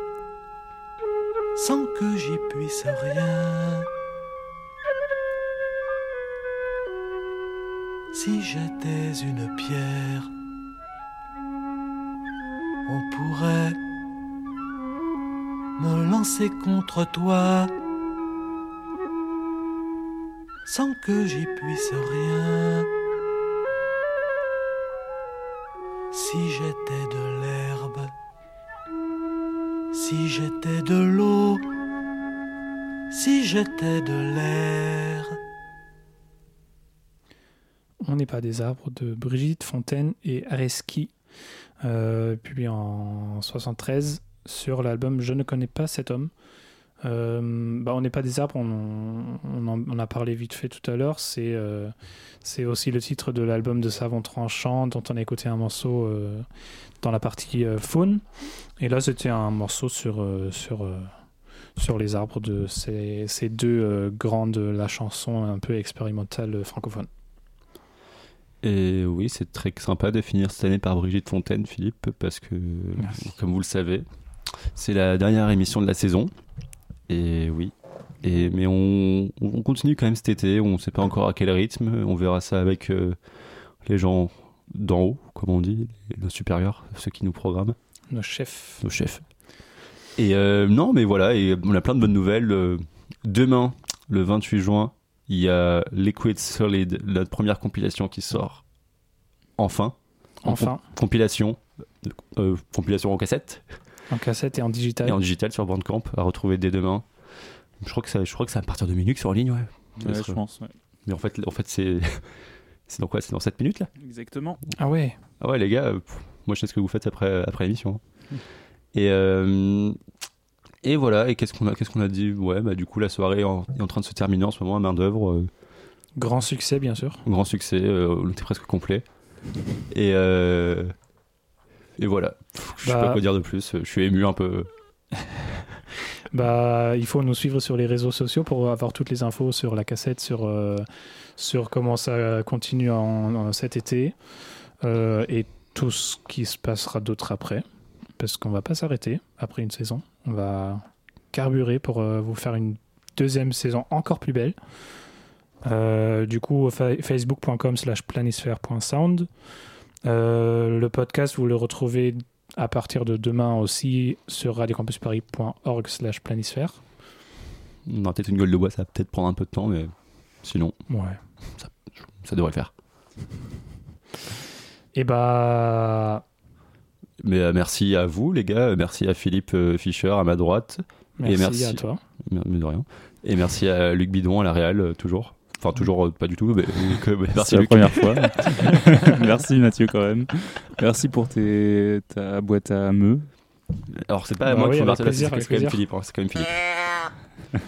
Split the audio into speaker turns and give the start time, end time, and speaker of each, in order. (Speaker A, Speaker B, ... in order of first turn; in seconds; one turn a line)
Speaker A: 1.6-3.9
Speaker A: 8.1-10.3
Speaker A: 12.9-13.8
Speaker A: 15.8-17.7
Speaker A: 20.6-22.9
Speaker A: 26.1-28.1
Speaker A: 29.9-31.6
Speaker A: 33.1-35.3
Speaker B: 38.0-41.1
Speaker B: 41.8-46.3
Speaker B: 47.0-56.5
Speaker B: 57.0-58.2
Speaker B: 58.8-61.1
Speaker B: 61.8-67.1
Speaker C: 68.6-74.0
Speaker C: 74.7-76.3
Speaker C: 77.1-83.2
Speaker C: 83.8-87.8
Speaker B: 88.1-88.8
Speaker C: 88.8-89.2
Speaker C: 90.2-98.6
Speaker C: 99.6-103.7
Speaker B: 100.4-100.8
Speaker B: 104.1-105.2
Speaker C: 105.0-107.1
Speaker C: 107.8-110.4
Speaker D: 110.0-110.7
Speaker C: 111.0-113.9
Speaker D: 114.0-114.6
Speaker B: 114.8-115.2
Speaker C: 115.4-118.0
Speaker C: 118.9-120.0
Speaker C: 120.8-125.5
Speaker B: 126.2-127.2
Speaker C: 127.2-129.0
Speaker C: 129.9-130.9
Speaker C: 132.0-134.7
Speaker B: 132.8-133.2
Speaker B: 136.3-144.2
Speaker B: 144.8-147.6
Speaker B: 148.2-154.6
Speaker B: 155.6-159.3
Speaker B: 160.0-166.8
Speaker C: 167.8-170.8
Speaker B: 170.9-171.2
Speaker C: 171.6-172.7
Speaker B: 174.9-176.2
Speaker C: 177.2-188.3
Speaker B: 181.2-182.0
Speaker D: 187.3-193.3
Speaker C: 194.0-196.6
Speaker B: 194.4-195.8